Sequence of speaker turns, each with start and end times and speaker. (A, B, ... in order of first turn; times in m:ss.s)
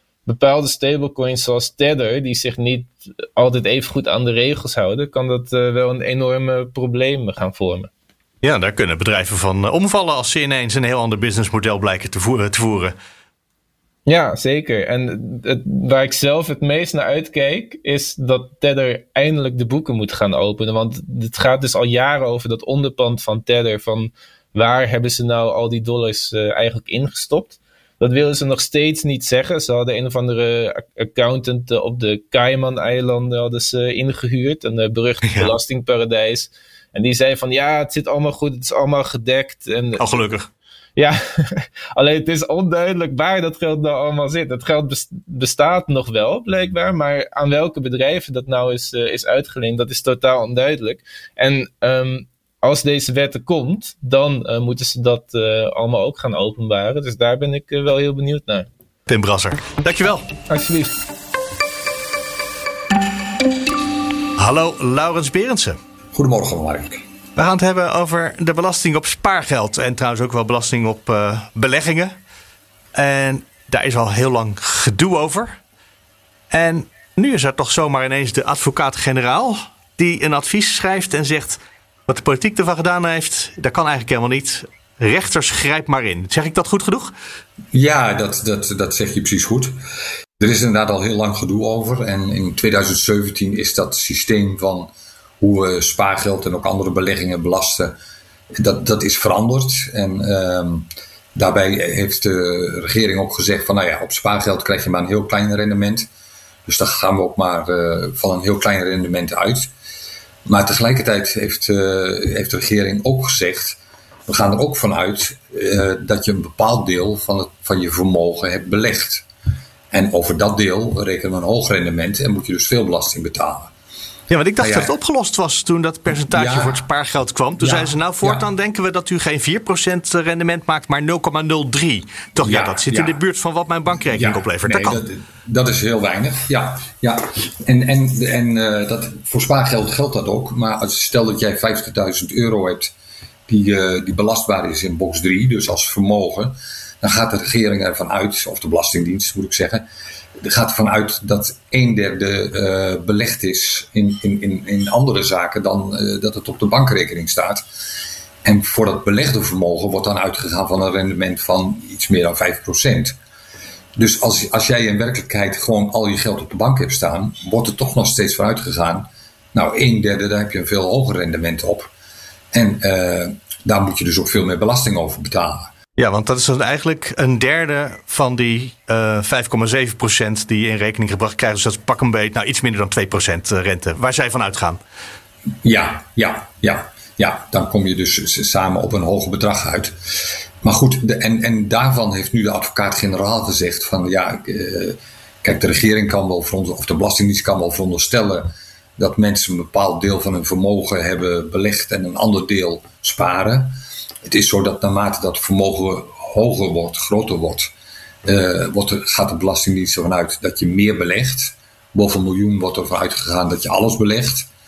0:00.2-0:07.9 A
0:08.4-0:12.9 B
0:14.0-0:40.2 A
0:35.2-0:35.5 B
0:40.0-0:40.5 B
0:41.0-0:58.7 A
0:59.1-1:00.3 B
1:00.5-1:01.0 A
1:04.4-1:05.8 B
1:06.1-1:07.0 C
1:07.4-1:12.1 B
1:12.9-1:15.6 B
1:16.5-1:27.1 B
1:27.7-1:29.7 C
1:30.4-1:37.9 C
1:38.5-1:46.1 C
1:46.6-1:49.7 C
1:50.4-1:59.2 C
1:59.9-2:03.7 C
2:04.3-2:15.0 B
2:04.6-2:04.9 C
2:06.3-2:06.8 C
2:07.6-2:08.5 C
2:12.4-2:13.2 C
2:14.1-2:22.9 C
2:23.5-2:29.8 C
2:30.4-2:37.6 C
2:38.4-2:43.2 C
2:44.0-2:51.9 C
2:52.5-2:55.7 C
2:56.0-3:04.8 B
3:05.6-3:27.7 C
3:28.2-3:34.5 C